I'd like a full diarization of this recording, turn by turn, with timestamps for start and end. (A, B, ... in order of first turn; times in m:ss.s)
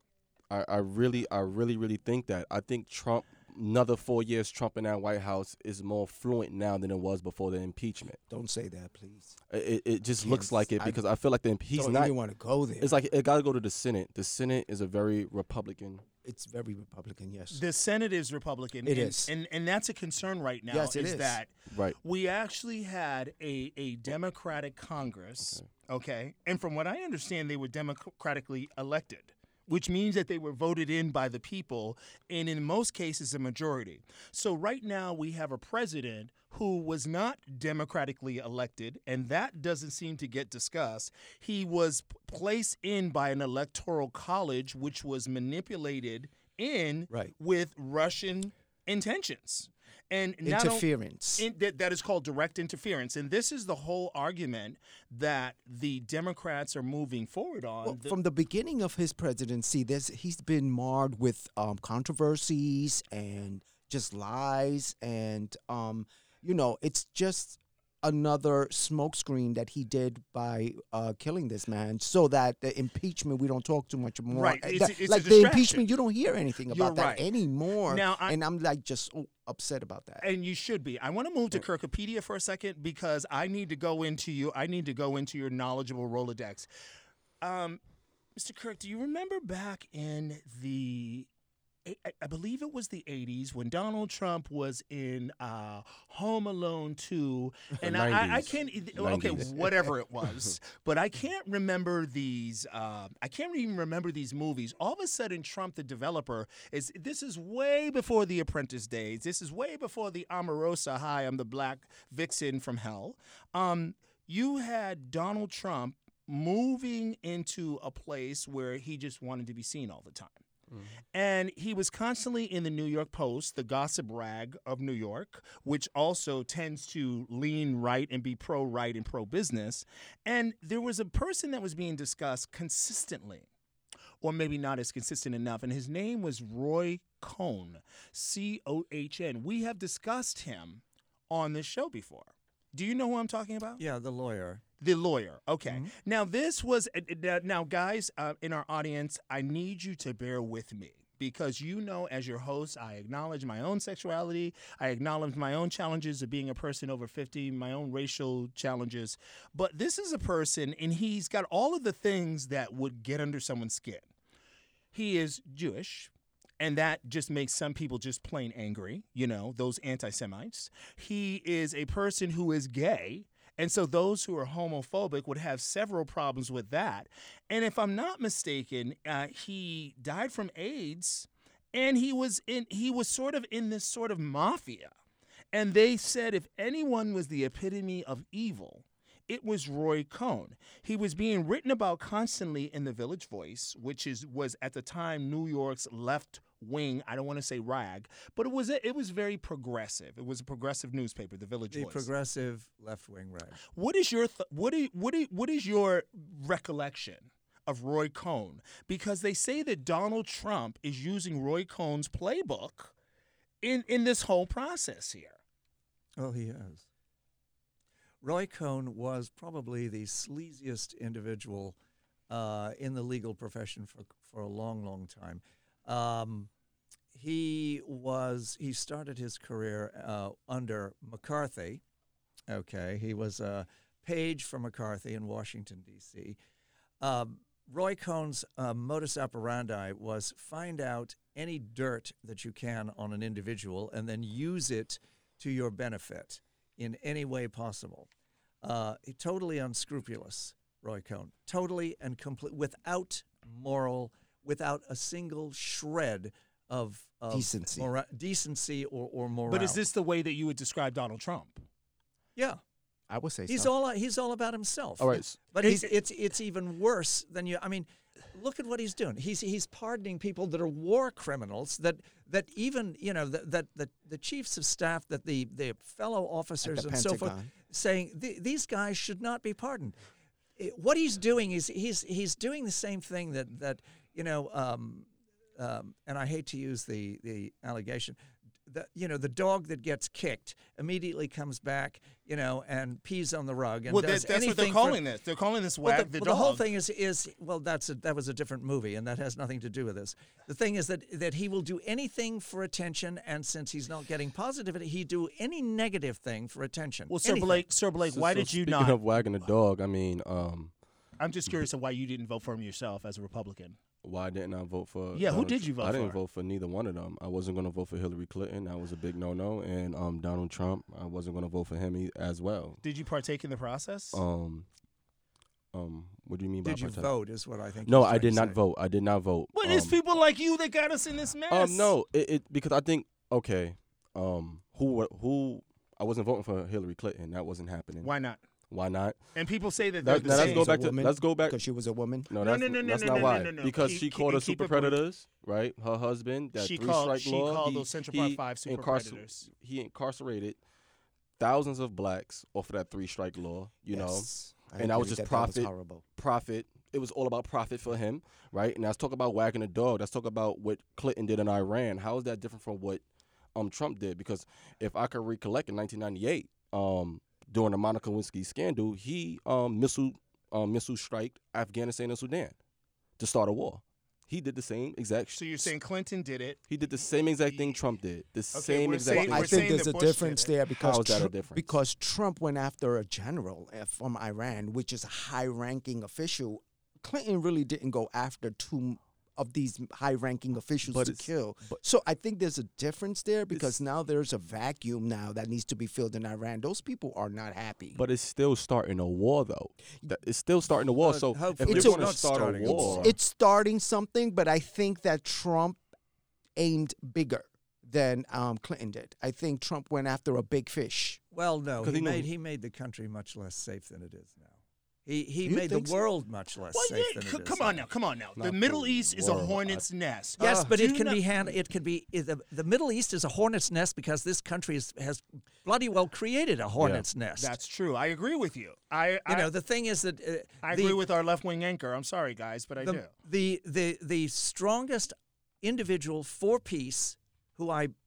0:00.5-0:08.2 A
0:08.3-0:09.4 B
0:09.5-0:12.1 A
0:10.2-0:11.0 B
0:11.7-0:12.9 B
0:12.8-0:16.0 A
0:16.2-0:17.6 B
0:17.5-0:58.2 C
0:18.8-0:19.3 B
0:20.7-0:21.4 B
0:21.7-0:22.0 A
0:50.4-0:51.5 B
0:57.8-1:20.2 B
1:14.3-1:15.8 C
1:16.7-1:17.2 C
1:17.8-1:18.4 C
1:20.2-1:26.7 C
1:27.4-1:27.8 C
1:28.4-1:31.3 C
1:31.8-2:00.4 C
1:37.8-1:39.9 A
2:01.1-2:13.5 C
2:14.2-2:23.8 C
2:23.8-2:24.6 D
2:24.8-2:44.1 C
2:25.6-2:25.9 D
2:44.9-3:04.9 C
3:05.5-3:22.1 C
3:21.7-3:23.6 D
3:23.7-3:32.9 C
3:33.6-3:35.4 C
3:36.2-3:36.9 D
3:38.2-3:41.8 D
3:42.3-3:46.5 D
3:47.1-3:51.8 D
3:52.5-3:56.4 D
3:57.0-4:08.1 D
4:08.6-4:19.8 D
4:17.3-4:17.9 B
4:19.5-4:21.6 C
4:23.1-4:23.7 B
4:23.5-4:40.0 D
4:25.0-4:25.4 A
4:36.6-4:37.5 B
4:40.6-4:55.0 D
4:53.9-4:56.7 C
4:55.8-5:07.6 D
5:07.1-5:09.0 C
5:08.1-5:10.7 A
5:11.2-5:13.8 C
5:14.0-5:22.8 A
5:15.1-5:16.2 C
5:22.8-5:24.2 C
5:24.1-5:24.7 A
5:25.7-5:27.1 A
5:26.6-5:28.6 D
5:27.8-5:29.9 A
5:29.5-5:31.9 C
5:31.5-5:38.1 A
5:38.0-5:38.4 C
5:38.7-5:39.2 A
5:39.4-5:40.7 C
5:40.0-5:41.6 A
5:40.1-5:42.3 B
5:42.3-5:50.6 A
5:42.4-5:45.0 C
5:46.5-5:49.5 C
5:51.4-6:03.0 A
5:53.9-5:56.0 B
6:03.5-6:12.6 A
6:13.2-6:15.7 A
6:15.4-6:16.6 C
6:16.7-6:19.8 A
6:17.5-6:17.8 C
6:18.5-6:20.5 C
6:19.1-6:38.0 B
6:20.8-6:21.8 A
6:30.9-6:31.8 A
6:37.9-6:43.1 A
6:41.0-6:43.1 D
6:41.6-6:45.8 B
6:46.6-6:51.2 B
6:51.3-6:57.9 D
6:51.8-6:52.3 A
6:55.4-6:56.0 B
6:56.7-7:01.2 C
6:58.4-6:59.8 A
7:00.4-7:07.6 D
7:06.8-7:07.0 A
7:07.4-7:09.5 C
7:09.3-7:11.0 D
7:10.6-7:13.1 C
7:12.8-7:17.9 D